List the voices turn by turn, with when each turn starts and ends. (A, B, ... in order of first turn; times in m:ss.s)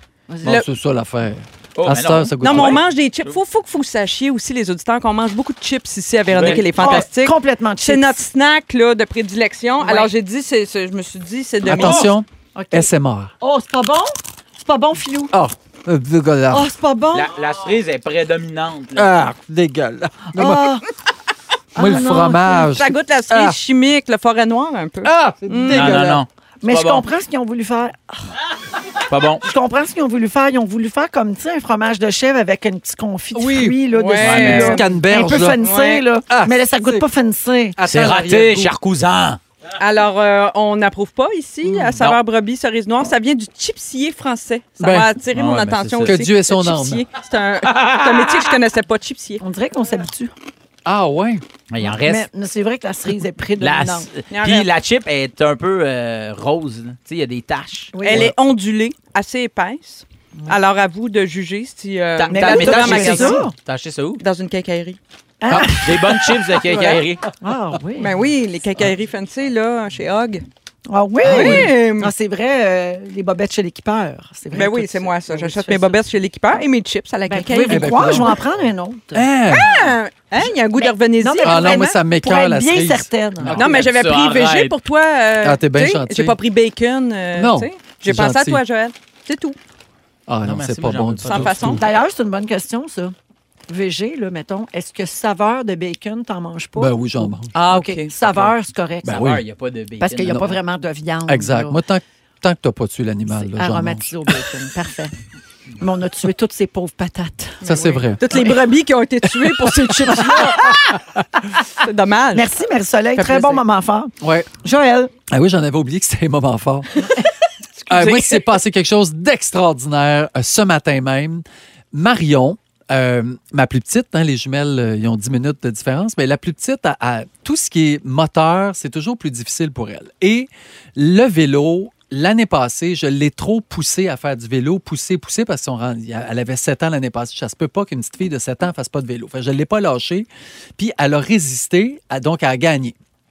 0:00.4-0:02.8 A
0:01.8-0:03.4 B
0:02.4-0:12.1 C
0:06.3-0:07.0 B
0:06.7-0:08.2 D
0:09.8-0:10.1 D
0:11.6-0:13.3 A
0:11.7-0:12.1 B
0:12.6-0:12.9 D
0:13.4-0:15.3 D
0:15.3-0:16.7 A
0:16.5-0:17.3 D
0:17.1-0:19.1 B
0:19.0-0:20.8 A
0:20.4-0:20.8 D
0:21.8-0:22.7 D
0:21.8-0:23.6 A
0:22.5-0:26.0 C
0:25.0-0:26.2 A
0:25.7-0:27.1 B
0:26.6-0:28.3 D
0:29.1-0:29.4 B
0:29.4-0:37.8 D
0:33.3-0:33.8 A
0:33.9-0:34.8 C
0:34.2-0:34.8 B
0:34.4-0:35.6 A
0:35.6-0:36.0 C
0:36.3-0:37.1 A
0:37.8-0:38.7 A
0:37.9-0:39.4 B
0:39.8-0:49.4 C
0:41.6-0:41.9 A
0:44.8-0:45.1 A
0:45.3-0:46.2 B
0:46.0-0:47.0 A
0:47.7-0:48.5 B
0:49.4-0:50.3 D
0:50.8-0:51.4 A
0:51.7-0:52.3 B
0:51.8-0:54.1 D
0:53.6-0:57.9 B
0:54.3-0:54.7 C
0:57.9-0:58.3 D
0:58.0-1:03.4 C
1:02.2-1:04.2 B
1:02.3-1:03.5 D
1:04.2-1:05.0 C
1:05.4-1:08.2 D
1:05.5-1:06.1 A
1:05.8-1:07.2 B
1:08.0-1:10.4 C
1:10.9-1:16.0 D
1:11.2-1:11.7 A
1:11.2-1:12.1 C
1:14.5-1:18.3 C
1:17.3-1:19.3 D
1:17.7-1:18.4 A
1:19.1-1:19.7 A
1:19.5-1:22.0 C
1:20.8-1:23.8 D
1:21.4-1:23.6 A
1:23.4-1:24.7 B
1:23.6-1:29.6 C
1:25.4-1:26.4 A
1:27.4-1:28.6 A
1:30.3-1:31.8 A
1:30.4-1:31.8 B
1:31.3-1:31.8 C
1:31.8-1:33.1 D
1:33.7-1:39.3 D
1:36.8-1:37.5 A
1:37.5-1:38.1 C
1:38.2-1:38.5 B
1:39.0-1:39.4 A
1:39.0-1:40.6 B
1:40.0-1:41.8 D
1:41.3-1:44.5 A
1:43.3-1:45.1 D
1:45.8-1:48.0 D
1:47.6-1:48.5 A
1:47.7-1:50.6 C
1:50.0-1:51.0 D
1:51.8-1:52.5 C
1:52.3-1:55.1 D
1:53.2-1:53.6 C
1:54.2-1:54.5 A
1:55.3-1:57.0 A
1:57.9-1:58.4 C
1:57.9-2:23.0 A